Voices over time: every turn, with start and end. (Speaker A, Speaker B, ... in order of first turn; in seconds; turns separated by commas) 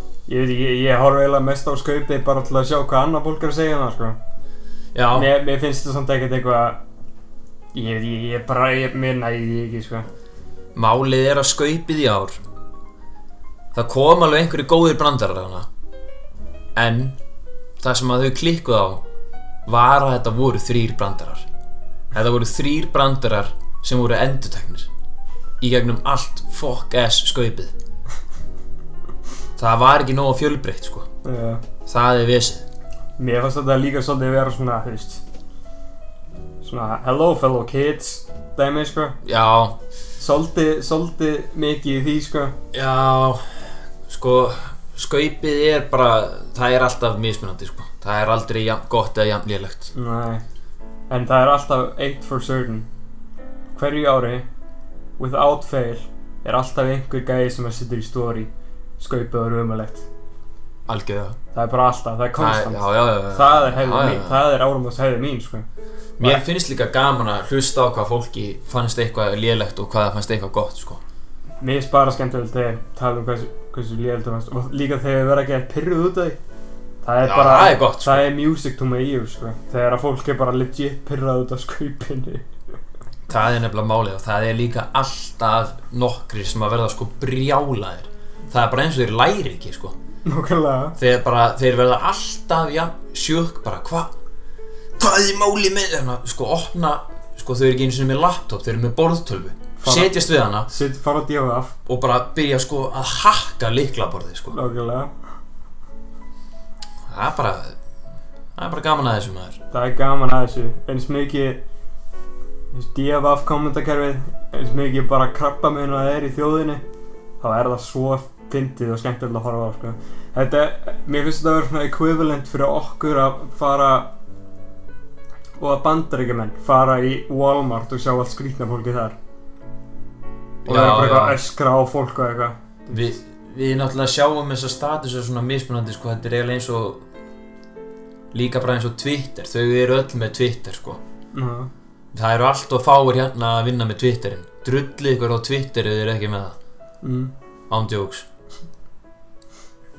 Speaker A: 0.3-4.2, Speaker B: 4.9-5.3, Speaker A: 5.1-6.8, Speaker A: 7.7-10.1, Speaker B: 10.7-12.4, Speaker B: 13.7-15.7, Speaker B: 16.7-17.2, Speaker B: 17.8-19.0, Speaker B: 19.7-21.5, Speaker B: 22.1-24.9, Speaker B: 25.6-27.7, Speaker B: 29.6-31.1, Speaker A: 31.2-31.6, Speaker B: 31.9-32.6, Speaker A: 33.2-35.2, Speaker A: 36.6-39.1, Speaker B: 39.2-39.8, Speaker A: 40.2-42.5, Speaker B: 42.7-43.4, Speaker B: 44.0-49.9, Speaker A: 49.9-50.4, Speaker A: 51.1-52.9, Speaker A: 53.7-54.5, Speaker A: 55.2-60.1, Speaker B: 60.9-61.4, Speaker A: 61.5-65.7, Speaker B: 62.4-64.4, Speaker B: 66.2-71.0, Speaker A: 71.6-76.4, Speaker A: 77.0-82.5, Speaker B: 77.2-78.3, Speaker B: 83.3-90.0, Speaker A: 90.2-91.0, Speaker B: 91.0-94.1, Speaker B: 95.0-100.7, Speaker A: 99.8-101.7, Speaker B: 101.8-104.5, Speaker A: 104.5-105.1, Speaker B: 107.1-107.7, Speaker B: 108.5-109.6, Speaker A: 109.7-111.6, Speaker A: 112.7-116.8, Speaker A: 117.4-124.1, Speaker A: 125.6-129.2, Speaker B: 130.6-131.4, Speaker A: 130.7-133.1, Speaker B: 132.9-137.0, Speaker B: 138.3-141.0, Speaker A: 141.3-141.7, Speaker B: 142.1-146.6, Speaker A: 147.0-147.3, Speaker B: 147.7-148.2